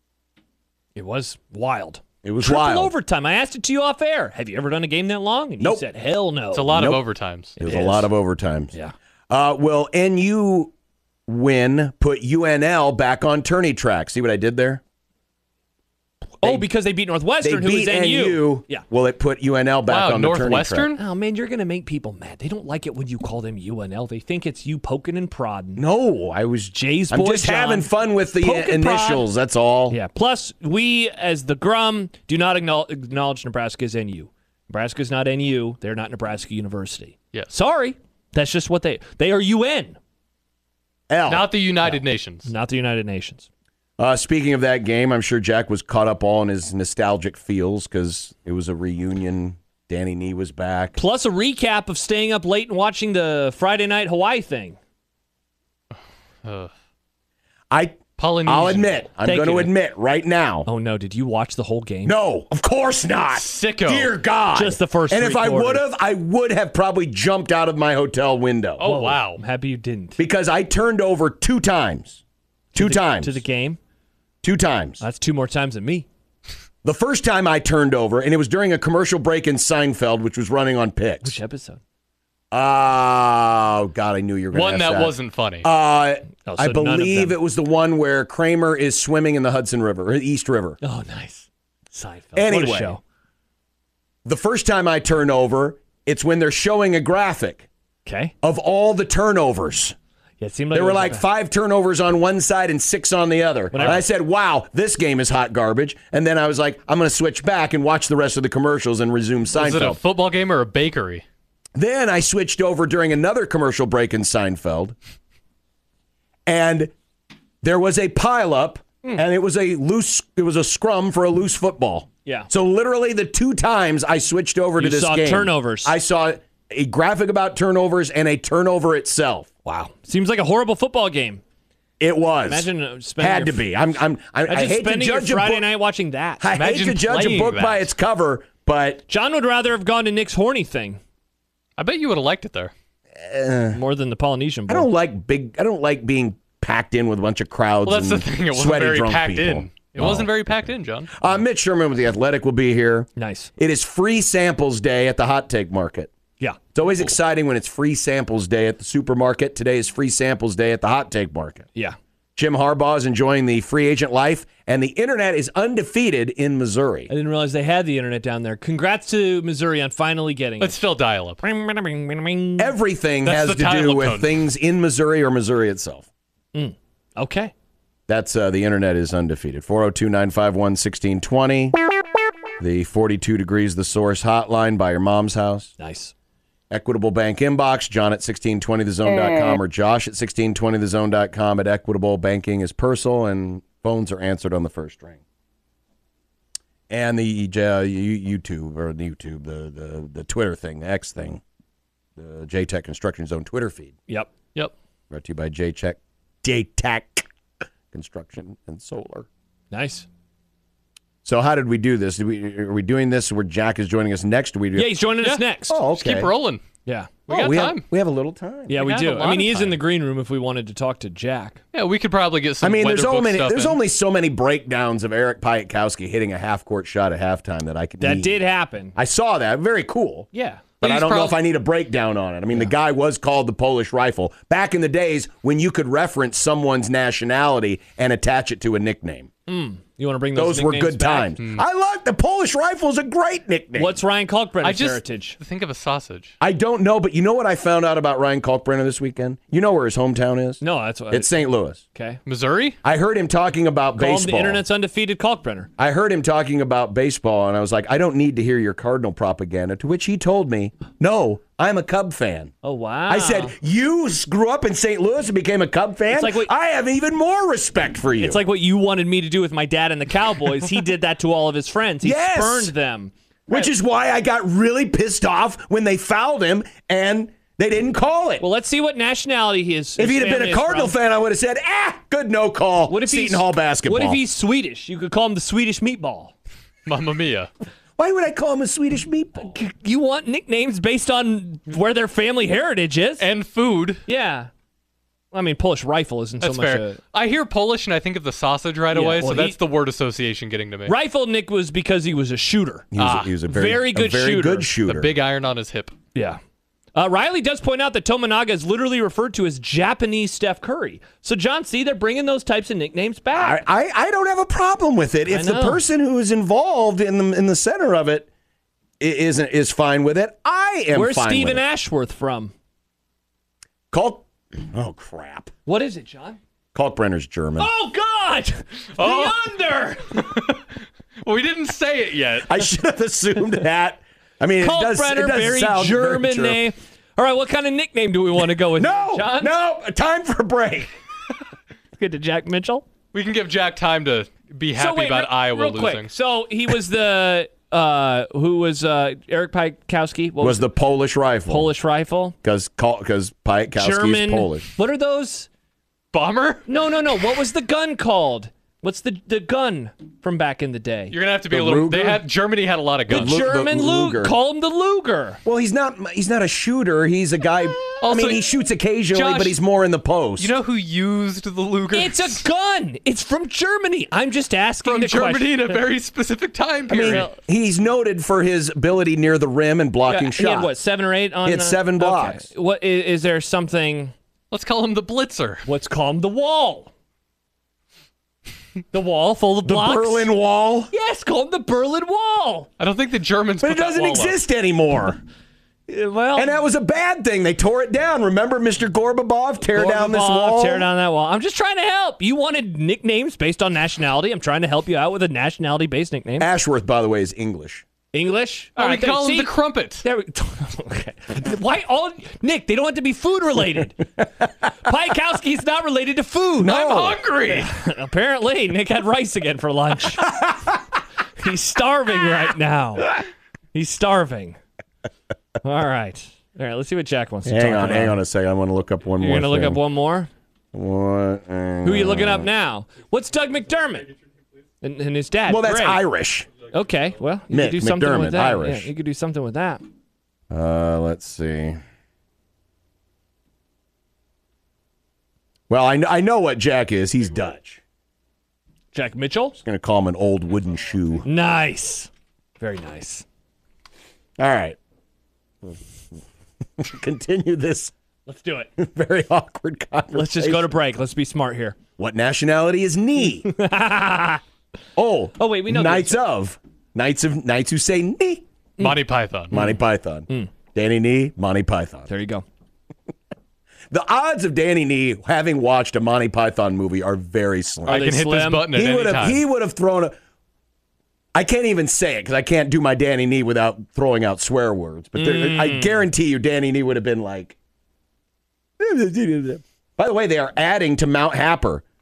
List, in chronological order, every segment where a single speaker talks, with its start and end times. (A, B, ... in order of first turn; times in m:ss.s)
0:00.9-0:06.8 A
0:02.2-0:02.9 B
0:05.6-0:05.9 B
0:06.5-0:07.6 C
0:06.7-0:07.0 B
0:07.6-0:08.1 A
0:07.6-0:08.7 B
0:09.3-0:10.7 B
0:11.3-0:14.8 B
0:16.4-0:18.8 A
0:17.4-0:20.9 B
0:19.9-0:21.0 C
0:21.0-0:25.8 A
0:25.8-0:30.0 B
0:26.7-0:29.3 A
0:29.9-0:40.0 A
0:41.1-0:41.5 B
0:41.2-0:42.5 C
0:41.8-0:43.5 A
0:44.0-0:51.0 B
0:50.9-0:54.8 A
0:56.4-0:56.7 C
0:57.7-1:00.7 B
0:58.2-0:59.0 C
0:59.2-0:59.7 A
1:00.6-1:02.1 A
1:02.0-1:08.9 B
1:03.3-1:04.1 C
1:04.5-1:05.8 A
1:08.8-1:09.4 C
1:08.8-1:10.2 A
1:10.2-1:12.2 B
1:12.7-1:13.4 B
1:12.7-1:13.8 A
1:14.4-1:15.0 B
1:15.0-1:16.1 A
1:16.8-1:21.4 B
1:21.2-1:21.8 A
1:22.5-1:30.8 B
1:24.5-1:25.7 C
1:26.4-1:27.4 A
1:30.8-1:33.0 A
1:32.4-1:33.0 B
1:34.2-1:37.7 B
1:38.0-1:38.3 A
1:38.4-1:40.0 B
1:40.4-1:41.2 A
1:40.7-1:50.0 B
1:43.7-1:44.0 A
1:49.5-1:51.2 C
1:51.8-1:54.9 B
1:56.5-1:56.9 B
1:57.6-2:09.5 B
2:04.8-2:06.0 A
2:09.6-2:11.4 A
2:12.0-2:15.7 B
2:12.4-2:13.7 A
2:14.4-2:16.5 A
2:16.4-2:19.0 B
2:16.5-2:17.9 C
2:19.1-2:21.0 A
2:21.8-2:22.7 C
2:23.2-2:23.8 B
2:23.7-2:24.9 A
2:24.7-2:30.3 B
2:27.8-2:31.1 C
2:31.1-2:36.1 B
2:33.2-2:33.5 A
2:36.7-2:41.6 B
2:42.4-2:47.1 B
2:47.1-2:50.8 A
2:50.6-2:51.4 C
2:51.4-2:52.7 A
2:52.6-2:56.1 B
2:53.2-2:54.4 C
2:56.5-2:57.5 A
2:58.1-3:01.8 B
3:02.6-3:05.7 B
3:05.8-3:06.1 A
3:06.7-3:15.2 B
3:16.9-3:21.4 B
3:22.2-3:24.0 B
3:25.1-3:27.3 B
3:27.9-3:29.3 B
3:29.7-3:30.1 A
3:31.2-3:35.1 B
3:34.7-3:35.8 A
3:35.2-3:36.6 C
3:35.7-3:36.3 B
3:36.8-3:37.1 A
3:37.3-3:37.8 C
3:37.3-3:38.8 B
3:38.7-3:39.8 C
3:38.7-3:41.6 A
3:41.7-3:43.8 C
3:42.6-3:48.4 B
3:48.0-3:49.0 A
3:48.9-3:50.3 B
3:50.3-3:50.6 A
3:50.8-3:51.4 C
3:50.8-3:59.3 B
3:59.5-4:01.4 A
4:00.3-4:04.0 B
4:03.7-4:05.4 A
4:04.6-4:06.3 C
4:06.4-4:11.8 B
4:10.6-4:12.2 A
4:12.2-4:12.8 C
4:12.8-4:14.6 B
4:14.0-4:15.7 A
4:15.8-4:22.5 B
4:22.6-4:23.5 A
4:23.1-4:28.4 B
4:26.1-4:26.5 A
4:28.2-4:33.7 A
4:32.0-4:32.7 B
4:33.5-4:38.4 B
4:38.4-4:41.0 A
4:40.0-4:44.2 B
4:42.9-4:46.3 A
4:46.8-4:47.5 C
4:48.0-4:49.6 B
4:49.4-4:53.3 A
4:53.2-4:54.0 C
4:54.0-4:54.5 A
4:55.3-4:57.0 A
4:56.4-5:00.9 C
4:58.9-4:59.6 A
5:00.8-5:02.9 A
5:02.9-5:05.1 B
5:03.0-5:03.4 C
5:03.4-5:04.7 A
5:04.8-5:06.0 C
5:06.1-5:06.4 A
5:06.9-5:13.6 A
5:13.3-5:18.3 B
5:15.2-5:15.8 A
5:19.0-5:21.6 B
5:20.9-5:22.5 A
5:23.9-5:25.5 B
5:25.6-5:26.4 A
5:26.7-5:27.7 B
5:27.6-5:30.2 A
5:29.0-5:29.5 C
5:30.0-5:32.6 C
5:32.4-5:36.7 B
5:34.6-5:39.5 A
5:38.7-5:40.9 B
5:42.0-5:42.8 A
5:43.1-5:46.1 C
5:44.7-5:50.7 A
5:50.4-5:51.7 B
5:51.5-5:52.4 A
5:52.4-5:54.7 B
5:53.7-5:55.5 A
5:56.1-5:56.7 C
5:56.7-6:01.2 A
6:01.1-6:03.4 C
6:01.5-6:02.2 B
6:03.1-6:04.3 B
6:03.1-6:05.4 A
6:05.4-6:10.5 B
6:08.0-6:08.4 C
6:09.1-6:09.6 C
6:10.4-6:12.4 C
6:11.9-6:15.8 A
6:14.8-6:17.3 C
6:16.9-6:20.7 B
6:20.0-6:24.1 A
6:21.4-6:22.5 B
6:24.5-6:25.6 C
6:25.6-6:26.9 A
6:28.9-6:30.3 A
6:29.6-6:30.9 B
6:30.9-6:32.7 A
6:32.8-6:34.4 C
6:33.6-6:35.2 B
6:35.9-6:36.5 A
6:36.3-6:40.9 B
6:39.6-6:46.5 A
6:46.4-6:47.8 B
6:48.1-6:56.8 A
6:48.8-6:50.0 C
6:56.6-6:57.2 B
6:56.6-6:57.7 C
6:57.5-7:00.3 A
7:01.4-7:04.6 A
7:05.6-7:08.2 A
7:07.4-7:09.8 B
7:09.2-7:10.3 A
7:10.7-7:12.5 B
7:11.8-7:14.1 A
7:14.8-7:16.0 A
7:15.5-7:16.5 B
7:16.7-7:19.8 A
7:17.5-7:18.9 B
7:20.5-7:21.8 B
7:25.7-7:27.8 B
7:28.9-7:29.6 A
7:29.6-7:31.2 B
7:31.2-7:33.2 A
7:34.4-7:34.8 B
7:36.8-7:37.9 B
7:38.2-7:38.7 A
7:38.8-7:40.7 B
7:40.1-7:41.8 A
7:42.0-7:43.5 B
7:43.3-7:44.4 A
7:45.0-7:48.4 B
7:45.4-7:46.2 A
7:48.8-7:49.6 C
7:48.8-7:49.8 A
7:49.5-7:52.1 B
7:52.1-7:52.4 A
7:53.9-7:58.0 B
7:57.8-7:58.7 A
7:57.9-7:59.4 C
7:58.6-8:00.1 B
8:01.3-8:07.6 B
8:05.1-8:06.1 A
8:08.8-8:11.8 B